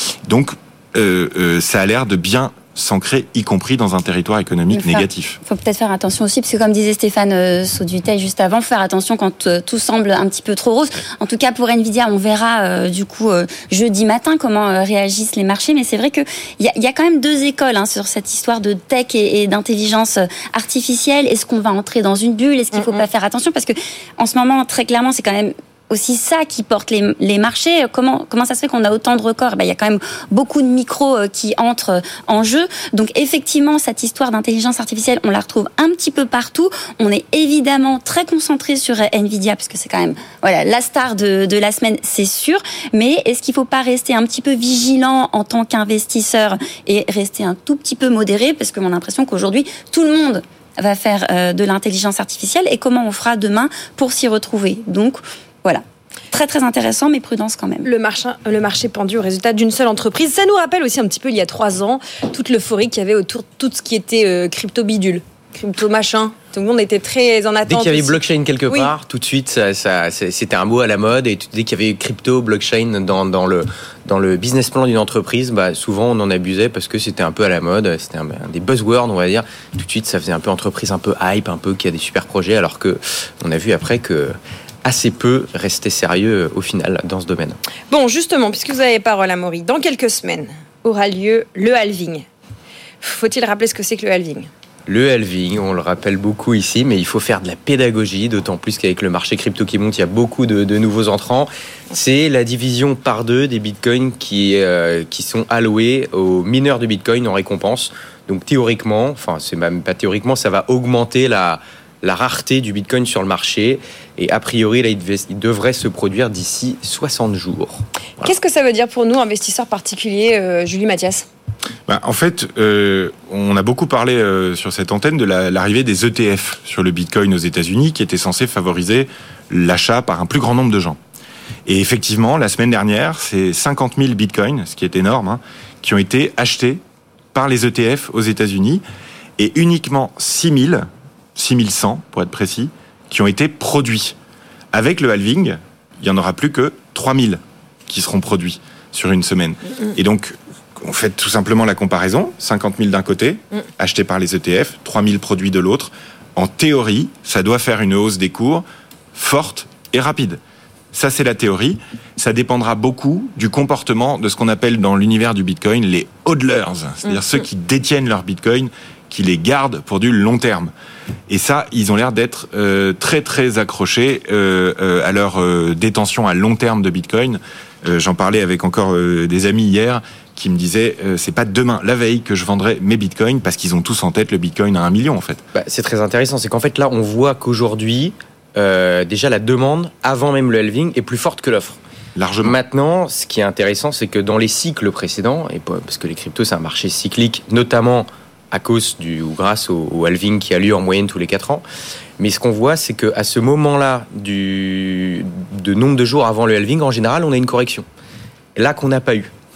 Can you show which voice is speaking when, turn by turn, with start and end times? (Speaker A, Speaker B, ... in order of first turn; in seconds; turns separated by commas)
Speaker A: 0.2-5.4, Speaker B: 4.7-57.9, Speaker C: 22.7-23.0, Speaker C: 57.8-68.9, Speaker D: 67.7-84.3, Speaker D: 84.8-87.6, Speaker C: 87.9-92.2, Speaker C: 93.0-94.5, Speaker D: 94.9-117.8, Speaker C: 118.2-121.2, Speaker A: 121.9-131.0, Speaker A: 131.7-136.8, Speaker A: 137.3-138.8, Speaker A: 139.4-144.2, Speaker A: 144.7-158.6, Speaker A: 159.1-160.4, Speaker A: 160.9-170.7, Speaker A: 171.3-185.4, Speaker D: 185.5-191.8, Speaker A: 192.2-192.6, Speaker D: 192.4-201.6, Speaker D: 202.2-207.8, Speaker D: 208.6-209.3